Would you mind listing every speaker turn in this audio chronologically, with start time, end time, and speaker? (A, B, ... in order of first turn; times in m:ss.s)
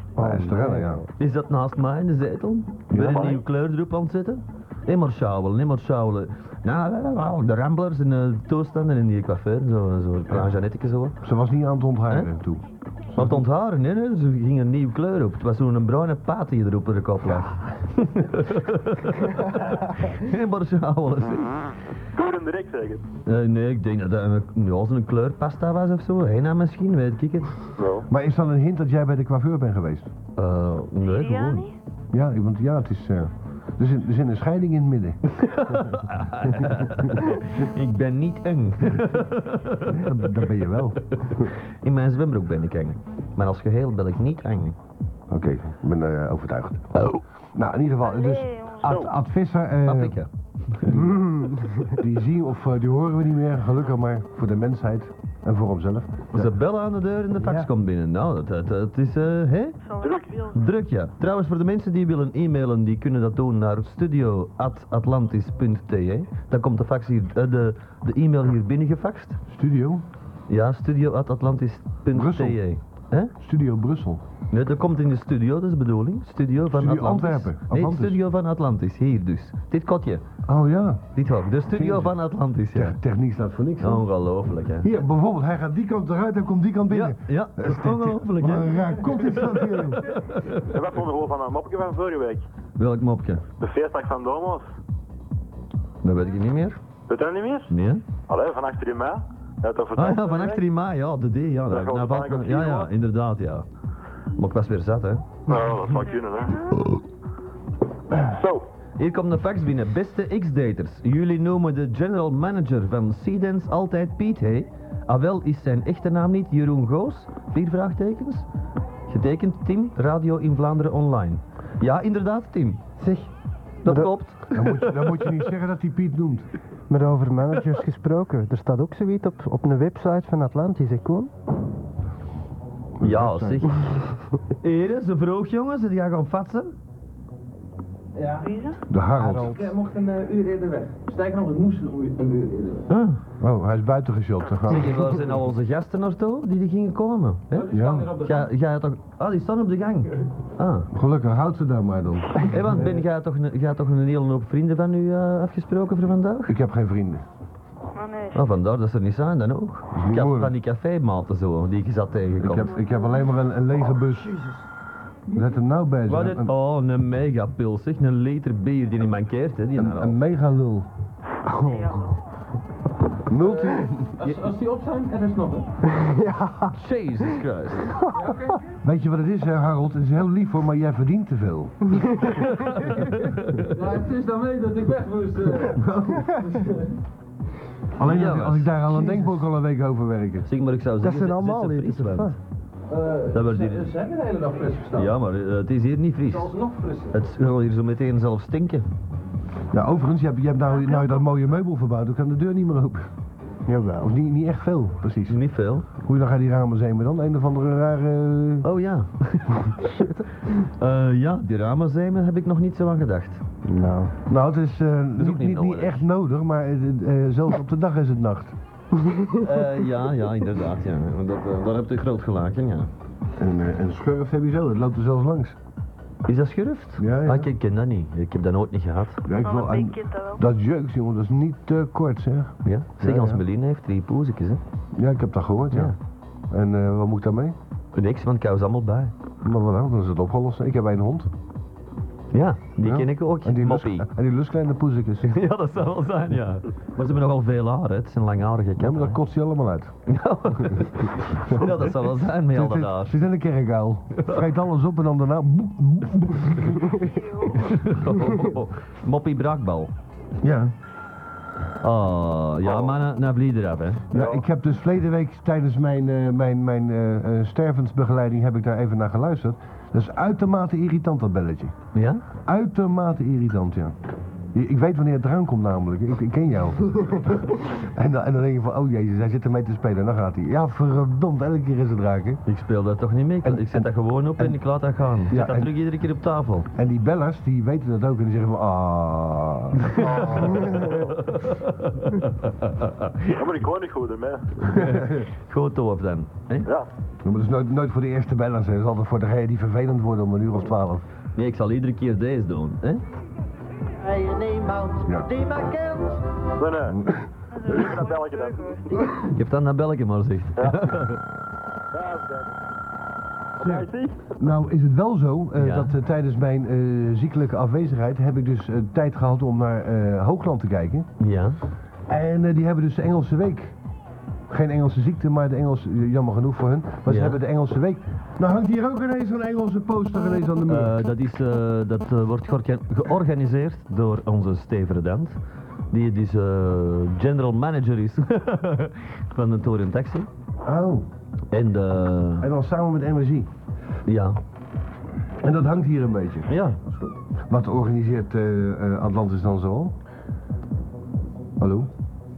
0:00.2-0:01.0 A
0:00.2-0:01.1 B
0:01.2-0:11.2 C
0:02.9-0:03.4 A
0:11.2-0:12.6 A
0:13.1-0:13.4 A
0:13.1-0:21.7 C
0:22.2-0:23.0 D
0:23.2-0:27.5 C
0:27.8-0:28.0 D
0:28.1-0:30.1 A
0:30.4-0:31.7 C
0:31.0-0:31.8 E
0:32.1-0:35.2 A
0:35.4-0:40.1 C
0:39.9-0:41.5 A
0:41.2-0:44.8 C
0:45.3-0:50.2 A
0:48.1-0:48.9 E
0:48.8-0:49.1 D
0:49.8-0:51.0 C
0:50.9-0:51.2 A
0:50.9-0:52.0 B
0:51.9-0:56.5 A
0:56.3-0:59.8 C
0:57.4-0:57.7 B
0:59.8-1:00.7 E
1:00.0-1:00.3 D
1:00.5-1:09.4 C
1:09.5-1:10.0 A
1:10.5-1:13.3 C
1:12.1-1:12.6 A
1:13.4-1:14.2 A
1:14.5-1:20.2 C
1:16.7-1:18.2 A
1:20.4-1:21.0 A
1:21.1-1:23.0 C
1:21.7-1:22.2 A
1:22.7-1:24.1 A
1:23.8-1:24.9 C
1:24.8-1:30.0 A
1:26.9-1:30.7 C
1:30.7-1:32.4 D
1:32.8-1:33.4 C
1:33.6-1:34.6 D
1:36.0-1:36.8 C
1:37.1-1:37.7 D
1:37.7-1:38.0 C
1:38.3-1:40.6 D
1:39.9-1:43.6 C
1:41.7-1:42.9 D
1:44.4-1:45.3 C
1:45.5-1:46.7 D
1:46.0-1:46.9 E
1:48.2-1:48.6 D
1:49.0-1:58.4 C
1:59.1-2:02.8 C
2:03.0-2:03.3 B
2:03.8-2:05.4 C
2:03.8-2:04.1 B
2:04.5-2:06.5 A
2:06.9-2:11.3 B
2:13.0-2:13.8 A
2:13.0-2:13.8 C
2:14.6-2:16.7 C
2:18.1-2:18.6 F
2:18.4-2:18.8 E
2:18.9-2:19.7 A
2:19.1-2:22.9 F
2:22.9-2:23.2 C
2:23.4-2:25.0 A
2:24.7-2:30.9 C
2:27.5-2:28.5 F
2:27.7-2:28.1 A
2:30.9-2:32.9 A
2:32.5-2:36.5 C
2:36.5-2:37.2 A
2:37.9-2:38.5 E
2:38.3-2:42.8 C
2:39.9-2:40.5 A
2:42.4-2:44.4 A
2:42.8-2:43.1 E
2:45.3-2:46.5 A
2:46.1-2:50.2 C
2:49.7-2:50.9 A
2:51.5-2:52.0 B
2:51.6-2:52.1 E
2:53.3-2:54.1 A
2:53.3-2:55.7 F
2:55.9-2:56.8 B
2:56.7-2:58.0 C
2:58.0-2:58.4 B
2:58.1-2:58.6 F
2:58.8-3:02.3 A
3:02.4-3:03.7 C
3:03.7-3:06.9 F
3:08.0-3:10.5 A
3:08.0-3:08.9 C
3:09.0-3:09.2 B
3:10.4-3:12.4 C
3:11.0-3:12.4 B
3:12.9-3:15.2 F
3:13.3-3:13.9 C
3:14.9-3:16.5 C
3:16.2-3:17.2 F
3:17.1-3:18.8 C
3:19.7-3:23.1 A
3:23.7-3:24.1 B
3:24.0-3:28.7 A
3:25.3-3:25.8 C
3:28.6-3:33.4 C
3:33.6-3:34.2 B
3:34.2-3:38.6 A
3:35.2-3:36.0 C
3:39.4-3:42.9 C
3:43.4-3:45.6 A
3:46.2-3:49.2 C
3:47.0-3:47.5 A
3:49.2-3:53.4 A
3:49.4-3:50.4 E
3:52.6-3:54.6 C
3:54.9-3:55.9 A
3:56.5-3:57.6 A
3:57.9-3:59.1 C
3:59.4-4:01.3 A
4:02.3-4:04.1 C
4:02.8-4:05.3 A
4:05.2-4:09.2 C
4:08.8-4:09.9 A
4:10.1-4:13.2 C
4:10.6-4:11.0 A
4:12.5-4:17.1 A
4:16.9-4:17.8 E
4:17.5-4:19.9 C
4:20.4-4:20.7 A
4:21.8-4:24.1 C
4:24.1-4:31.7 A
4:24.1-4:24.4 D
4:31.9-4:32.2 C
4:32.4-4:34.0 A
4:34.5-4:42.4 A
4:42.4-4:46.7 C
4:43.4-4:44.6 A
4:45.3-4:45.8 A
4:46.7-4:50.8 A
4:50.0-4:53.3 C
4:53.3-4:54.4 D
4:54.6-4:56.7 C
4:57.2-5:01.0 A
5:01.4-5:03.0 C
5:04.0-5:06.2 G
5:05.0-5:05.3 A
5:06.6-5:07.0 D
5:06.9-5:07.2 A
5:07.5-5:09.2 E
5:07.6-5:08.8 D
5:09.3-5:11.2 C
5:11.9-5:12.5 D
5:13.6-5:14.2 D
5:14.4-5:21.1 A
5:15.6-5:15.9 C
5:21.2-5:21.6 C
5:22.1-5:23.8 A
5:24.5-5:31.0 A
5:27.1-5:27.4 C
5:30.7-5:35.4 C
5:35.9-5:40.3 C
5:40.6-5:41.0 A
5:41.5-5:42.5 C
5:42.4-5:43.5 A
5:44.1-5:44.4 C
5:45.4-5:46.5 A
5:46.5-5:46.9 C
5:47.4-5:50.0 A
5:51.6-5:51.9 A